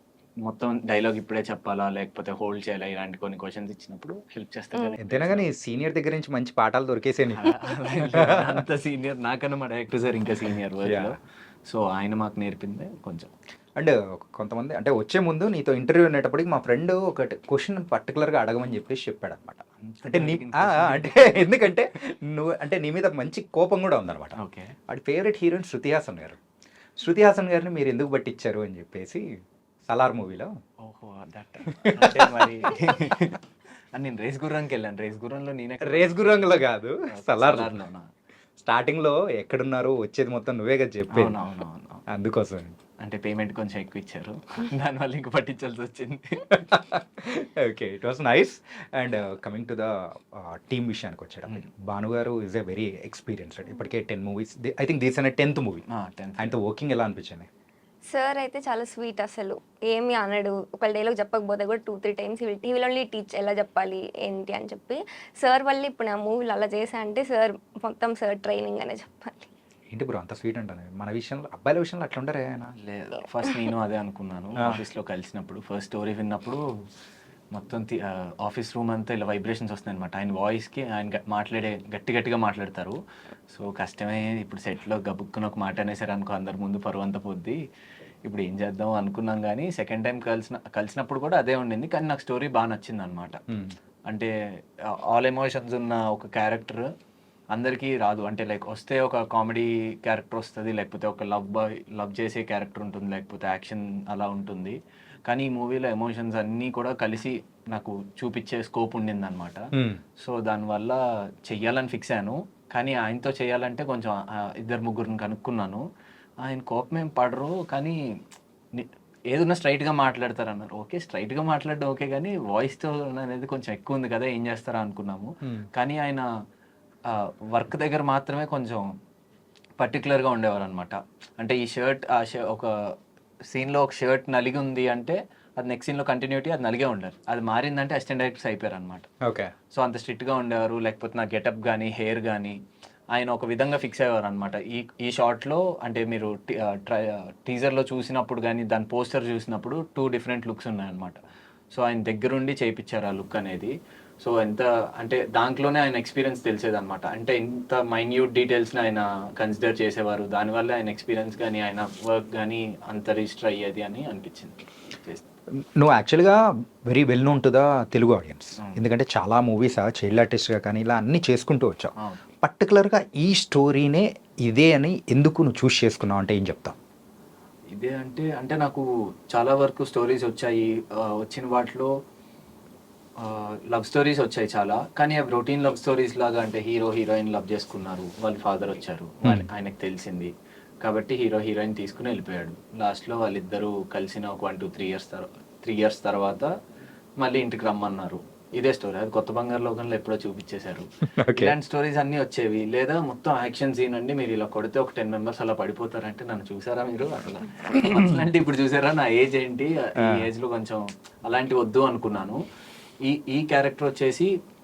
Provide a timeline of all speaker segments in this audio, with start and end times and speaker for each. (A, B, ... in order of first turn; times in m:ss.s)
0:00.4-0:05.4 A
0:05.0-0:07.5 B
0:07.4-0:13.3 A
0:08.1-0:08.6 B
0:10.8-0:11.2 B
0:13.8-0:24.4 B
0:19.8-0:21.5 A
0:24.4-0:24.7 A
0:24.9-0:26.4 B
0:27.0-0:29.2 B
0:29.9-0:30.5 B
0:30.8-0:33.4 A
0:31.7-0:33.0 B
0:33.9-0:38.1 A
0:35.8-0:37.8 B
0:38.6-0:41.4 B
0:41.1-0:42.0 A
0:42.1-0:42.8 B
0:43.0-0:46.6 A
0:46.5-0:55.8 B
0:55.9-0:56.5 A
0:56.4-0:57.5 B
0:58.1-1:09.5 C
1:09.9-1:12.7 B
1:12.8-1:16.6 A
1:17.5-1:23.0 A
1:23.5-1:27.6 A
1:28.2-1:33.4 A
1:33.5-1:33.7 B
1:34.1-1:36.9 A
1:37.5-1:55.8 A
1:49.7-1:50.0 B
1:56.4-1:58.0 A
1:58.7-2:06.3 A
2:05.4-2:05.7 B
2:07.1-2:08.8 A
2:09.8-2:12.7 A
2:13.5-2:19.1 A
2:19.2-2:19.5 B
2:19.7-2:22.6 A
2:23.1-2:31.2 A
2:31.7-2:45.2 A
2:45.8-2:56.8 B
2:48.6-2:48.8 A
2:57.7-3:01.9 A
3:03.2-3:16.5 A
3:17.2-3:32.4 A
3:21.2-3:21.5 B
3:30.0-3:30.2 B
3:33.0-3:34.3 A